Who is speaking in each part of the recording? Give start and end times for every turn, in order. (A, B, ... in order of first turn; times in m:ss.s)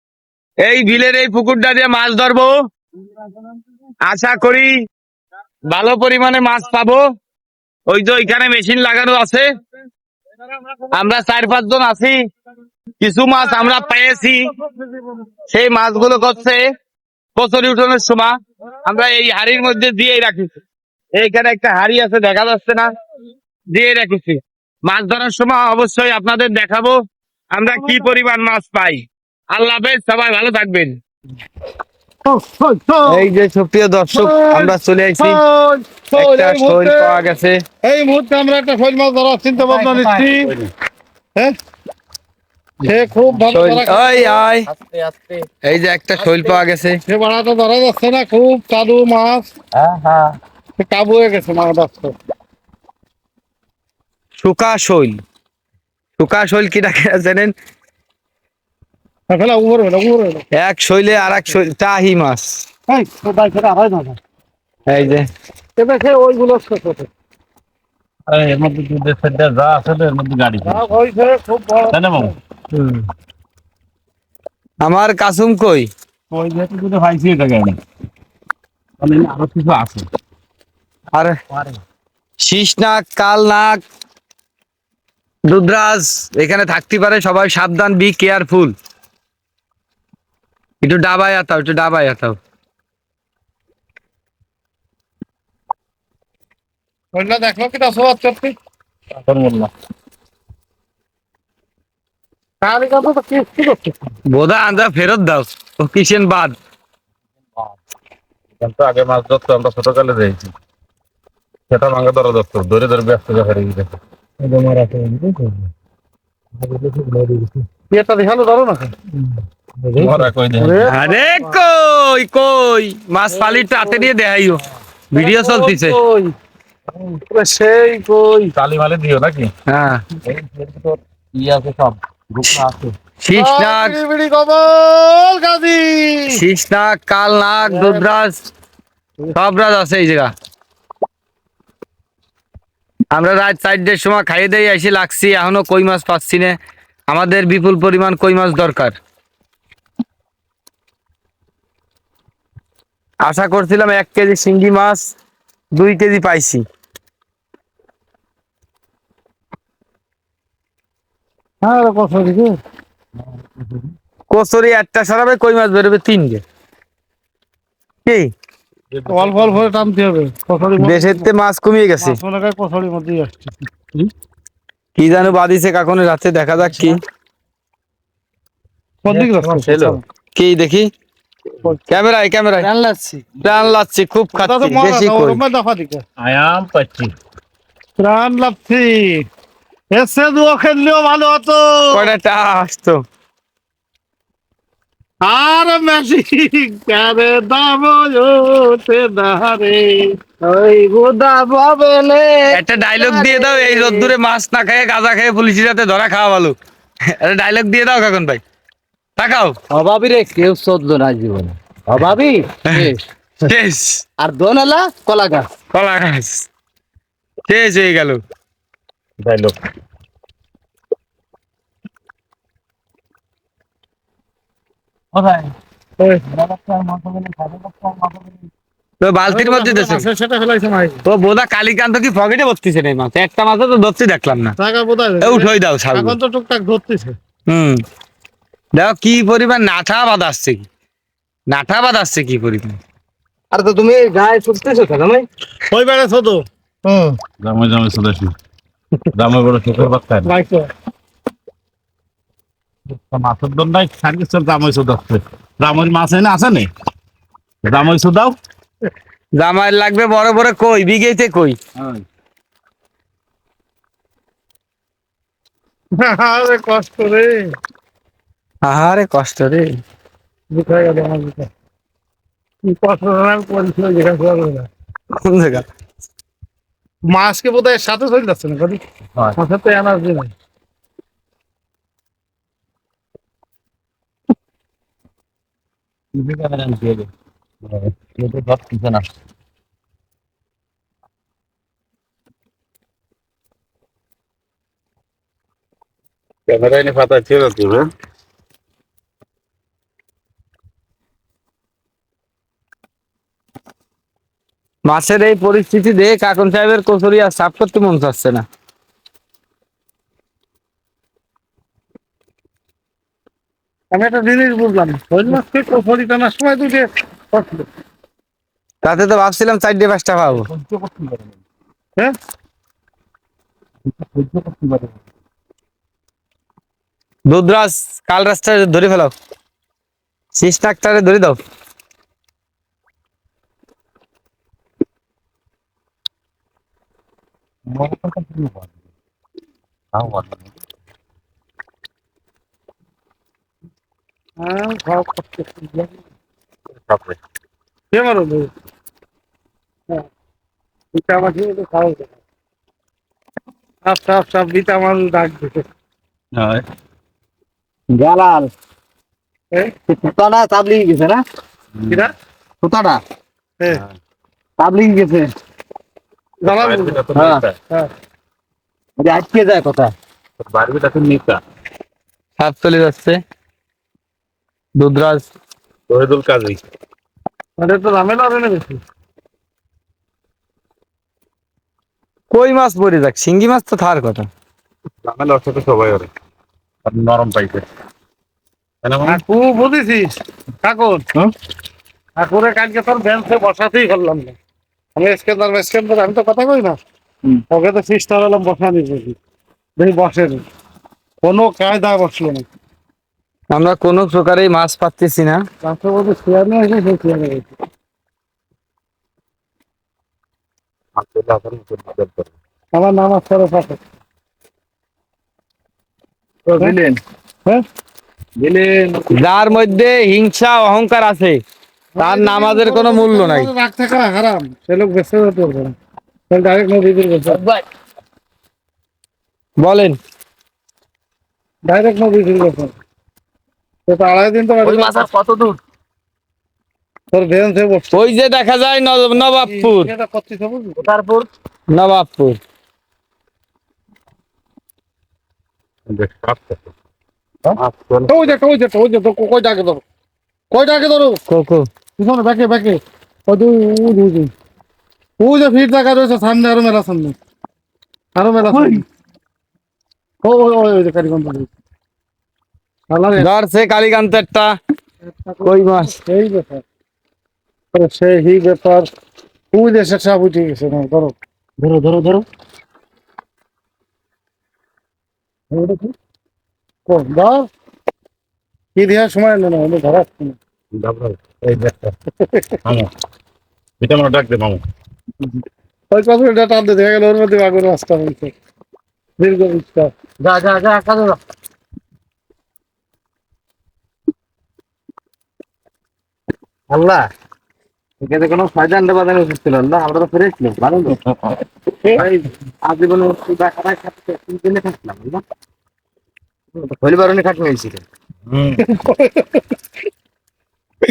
0:00.6-0:02.5 A
0:04.0-0:04.7 A
0:05.7-0:07.0 A
0:07.9-0:09.4 A
0:10.9-0:12.2 A
0:13.0-0:14.5 A
0:14.6-0:15.2 B
0:15.5-0:16.6 A
0:17.4-0:20.5 A
0:21.1-0:22.9 A
0:23.7-0:27.0 A
0:27.5-0:31.0 A
0:27.7-0:28.1 B
0:32.2-0:33.2 B
0:33.1-0:35.4 A
0:34.1-0:37.2 B
0:36.1-0:37.6 A
0:37.8-0:40.5 B
0:39.5-0:40.4 C
0:40.2-0:40.7 D
0:42.8-0:44.5 B
0:43.2-0:43.5 C
0:43.5-0:44.6 A
0:44.6-0:45.5 C
0:45.6-0:47.0 A
0:46.2-0:46.6 C
0:47.1-0:49.5 B
0:49.7-0:50.4 C
0:50.8-0:52.2 B
0:54.4-0:55.2 A
0:56.2-0:57.5 A
0:59.3-1:00.4 B
1:00.5-1:02.6 A
1:02.9-1:04.2 B
1:04.9-1:05.2 A
1:05.8-1:07.1 B
1:08.3-1:10.9 D
1:10.6-1:12.3 B
1:11.9-1:12.3 D
1:12.7-1:13.0 A
1:14.8-1:15.9 A
1:16.3-1:17.8 D
1:19.0-1:20.0 D
1:22.4-1:23.8 A
1:25.5-1:28.7 A
1:30.8-1:32.4 A
1:37.1-1:38.5 B
1:39.2-1:39.7 D
1:42.6-1:44.1 B
1:44.3-1:46.6 A
1:48.6-1:50.5 D
1:51.7-1:53.9 D
1:54.4-1:55.5 B
1:56.6-1:57.5 C
1:57.9-1:59.0 B
1:59.8-2:00.1 C
2:00.0-2:00.9 D
2:00.6-2:01.6 B
2:00.9-2:06.0 A
2:03.3-2:04.1 B
2:05.1-2:06.3 B
2:07.2-2:08.5 B
2:08.5-2:09.5 D
2:09.7-2:10.0 A
2:10.3-2:10.9 D
2:11.4-2:11.9 C
2:11.5-2:11.7 D
2:12.3-2:12.9 D
2:13.2-2:14.0 A
2:13.3-2:16.4 B
2:16.3-2:18.4 A
2:17.6-2:18.1 B
2:19.3-2:20.3 A
2:23.1-2:26.5 A
2:27.1-2:29.0 A
2:33.2-2:35.1 A
2:35.7-2:36.6 A
2:41.6-2:42.6 B
2:44.3-2:46.4 A
2:48.9-2:49.8 D
2:49.1-2:51.3 B
2:50.8-2:52.2 A
2:52.0-2:53.5 B
2:55.0-2:57.0 A
2:59.0-3:00.0 B
2:59.3-3:00.9 A
3:01.9-3:02.7 A
3:02.6-3:03.7 C
3:03.4-3:05.4 A
3:04.3-3:06.0 B
3:06.2-3:07.1 D
3:08.0-3:09.3 B
3:09.9-3:12.1 B
3:11.9-3:13.0 A
3:15.2-3:20.2 B
3:20.4-3:24.1 C
3:22.5-3:26.6 A
3:27.2-3:28.4 A
3:29.2-3:29.6 A
3:29.7-3:33.0 C
3:33.4-3:34.0 A
3:34.2-3:35.5 C
3:35.7-3:36.5 A
3:37.5-3:38.2 A
3:39.2-3:39.6 D
3:45.1-3:45.5 C
3:46.0-3:46.3 B
3:46.3-3:48.5 C
3:49.0-3:50.1 A
3:49.3-3:51.0 B
3:51.0-3:54.6 A
3:54.6-3:57.2 B
3:55.2-3:56.2 A
3:57.5-3:57.8 A
3:58.8-4:00.7 A
4:01.5-4:02.8 A
4:03.5-4:05.3 C
4:05.7-4:06.4 B
4:06.8-4:07.2 C
4:07.4-4:08.3 D
4:09.1-4:10.3 D
4:10.2-4:10.7 B
4:12.9-4:16.7 D
4:17.6-4:18.3 D
4:19.4-4:21.6 A
4:26.0-4:27.6 B
4:28.6-4:29.7 A
4:30.5-4:31.5 B
4:32.6-4:34.7 B
4:35.1-4:35.6 A
4:37.1-4:38.8 B
4:39.4-4:40.3 B
4:46.2-4:47.0 D
4:47.9-4:49.0 C
4:56.5-4:57.9 D
5:04.8-5:08.4 A
5:13.9-5:17.7 B
5:18.8-5:20.5 A
5:20.3-5:21.4 D
5:24.0-5:24.9 D
5:27.3-5:29.1 A
5:30.3-5:31.4 A
5:37.7-5:38.5 D
5:39.9-5:40.5 D
5:44.4-5:46.0 B
5:46.9-5:47.2 D
5:47.9-5:48.5 B
5:50.9-5:52.2 B
5:53.8-5:55.7 B
5:56.3-5:56.6 D
5:57.9-5:58.5 C
5:59.9-6:01.2 C
6:01.8-6:02.1 D
6:02.6-6:03.0 C
6:03.7-6:03.9 D
6:04.6-6:05.3 C
6:06.4-6:07.1 B
6:06.4-6:07.6 D
6:07.1-6:07.4 C
6:09.0-6:09.9 C
6:10.4-6:11.4 D
6:12.4-6:13.2 A
6:14.8-6:15.3 A
6:15.9-6:16.6 D
6:17.6-6:18.8 B
6:22.3-6:24.3 A
6:25.0-6:26.1 D
6:26.8-6:27.6 D
6:28.8-6:29.2 D
6:29.1-6:31.0 B
6:32.2-6:34.4 B
6:35.0-6:36.8 B
6:37.5-6:39.2 B
6:39.8-6:40.4 B
6:41.2-6:42.4 B
6:43.5-6:45.4 A
6:45.6-6:47.6 B
6:51.0-6:52.3 D
6:52.7-6:53.8 B
6:56.5-6:57.0 C
6:58.4-6:59.1 C
6:59.1-7:01.4 A
7:02.0-7:05.7 B
7:02.0-7:03.5 A
7:06.3-7:07.4 B
7:07.3-7:07.6 C
7:09.6-7:10.0 A
7:11.6-7:12.7 B
7:13.9-7:15.1 B
7:14.6-7:15.6 C
7:17.1-7:18.1 B
7:17.9-7:19.9 A
7:19.2-7:20.8 B
7:20.8-7:21.3 C
7:21.7-7:22.4 A
7:25.9-7:26.7 D
7:27.6-7:28.3 D
7:28.1-7:29.8 B
7:30.5-7:31.2 B
7:31.3-7:31.7 A
7:32.0-7:34.3 B
7:35.2-7:37.2 B
7:38.2-7:38.8 B
7:40.2-7:41.5 B
7:42.9-7:43.3 B
7:43.2-7:44.5 A
7:45.0-7:46.6 B
7:45.4-7:45.9 A
7:47.7-7:48.9 B
7:49.5-7:51.1 B
7:51.6-7:52.2 C
7:55.5-7:55.9 C
7:56.8-7:57.5 B
7:58.8-8:00.4 B
8:00.8-8:01.9 D
8:02.2-8:02.6 B
8:02.6-8:02.9 D
8:03.8-8:04.6 D
8:05.9-8:08.3 B
8:09.2-8:09.9 B
8:10.2-8:11.2 C
8:16.7-8:17.0 C
8:18.0-8:21.0 C
8:21.9-8:25.2 C
8:26.5-8:27.8 C
8:28.3-8:28.6 D
8:28.6-8:29.4 B